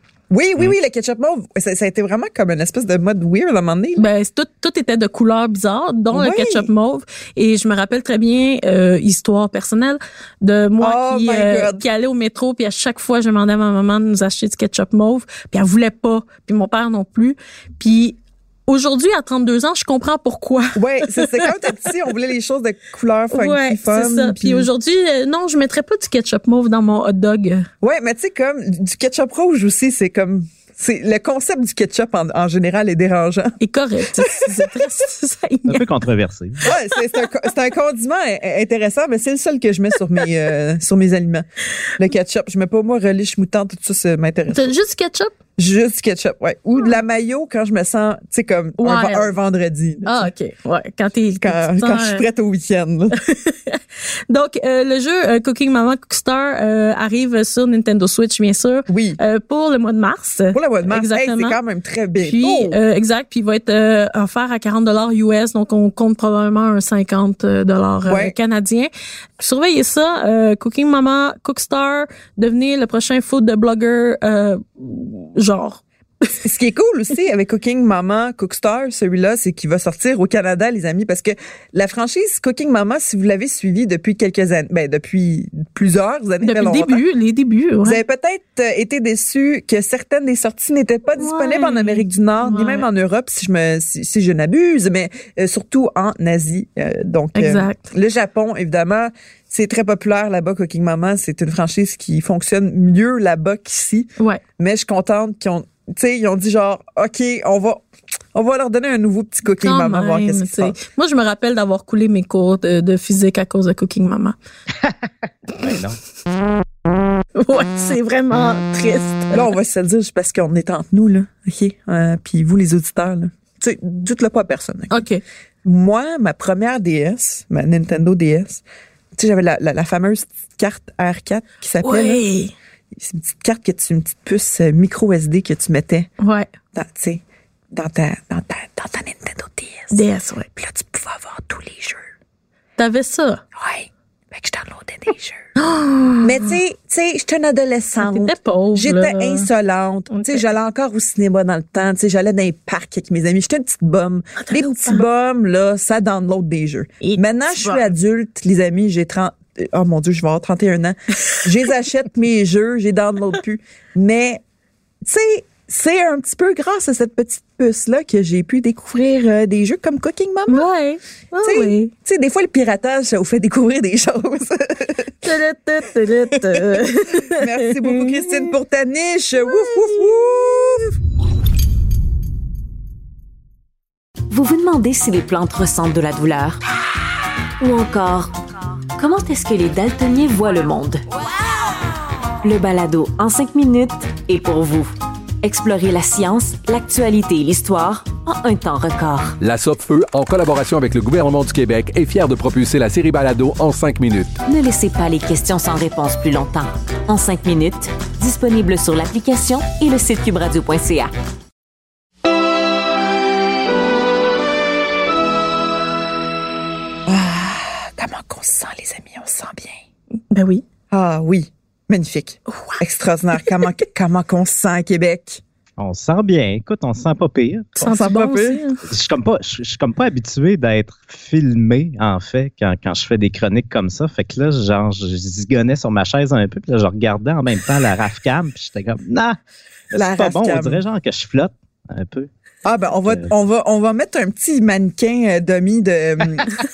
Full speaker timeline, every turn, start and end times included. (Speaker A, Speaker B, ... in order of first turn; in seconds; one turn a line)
Speaker A: 0.3-4.1
Speaker B: 4.0-21.5
Speaker A: 6.1-6.7
Speaker A: 10.8-11.8
Speaker A: 20.8-24.7
Speaker B: 23.3-27.7
Speaker A: 27.8-33.6
Speaker B: 33.6-35.9
Speaker A: 34.2-34.7
Speaker C: 35.7-36.6
Speaker A: 36.6-44.7
Speaker B: 44.5-45.3
Speaker A: 45.6-50.2
Speaker B: 48.8-49.3
Speaker B: 50.0-52.2
Speaker A: 51.4-53.1
Speaker B: 53.1-61.6
Speaker A: 58.9-59.2
Speaker A: 60.5-62.8
Speaker B: 62.2-76.4
Speaker A: 68.1-68.3
Speaker A: 76.4-87.0
Speaker B: 86.4-88.0
Speaker A: 87.8-110.8
Speaker B: 91.2-92.8
Speaker B: 97.3-97.9
Speaker B: 109.6-114.3
Speaker C: 115.6-116.0
Speaker B: 117.3-119.5
Speaker A: 119.3-124.9
Speaker B: 124.9-125.2
Speaker A: 125.6-128.6
Speaker A: 129.2-132.2
Speaker B: 131.8-132.5
Speaker A: 132.9-136.1
Speaker B: 136.2-136.5
Speaker A: 136.7-140.0
Speaker B: 139.9-140.5
Speaker A: 140.6-142.0
Speaker B: 142.8-143.4
Speaker A: 143.5-145.4
Speaker B: 145.6-146.5
Speaker A: 146.2-164.4
Speaker B: 148.0-149.5
Speaker B: 150.1-150.4
Speaker B: 154.4-155.0
Speaker B: 157.0-157.8
Speaker A: 165.0-170.7
Speaker B: 170.5-171.9
Speaker A: 171.4-175.1
Speaker B: 175.2-178.5
Speaker A: 176.4-180.9
Speaker B: 179.5-180.2
Speaker D: 184.3-186.6
Speaker D: 187.6-188.3
Speaker D: 188.9-191.0
Speaker D: 192.4-199.4
Speaker E: 199.4-204.4
Speaker D: 204.5-211.1
Speaker A: 217.1-219.8
Speaker B: 220.3-220.6
Speaker A: 220.9-225.4
Speaker B: 222.5-222.8
Speaker C: 225.8-227.7
Speaker B: 227.8-228.8
Speaker A: 227.8-228.6
Speaker C: 228.9-239.4
Speaker C: 239.9-242.3
Speaker A: 239.9-240.8
Speaker A: 242.6-246.6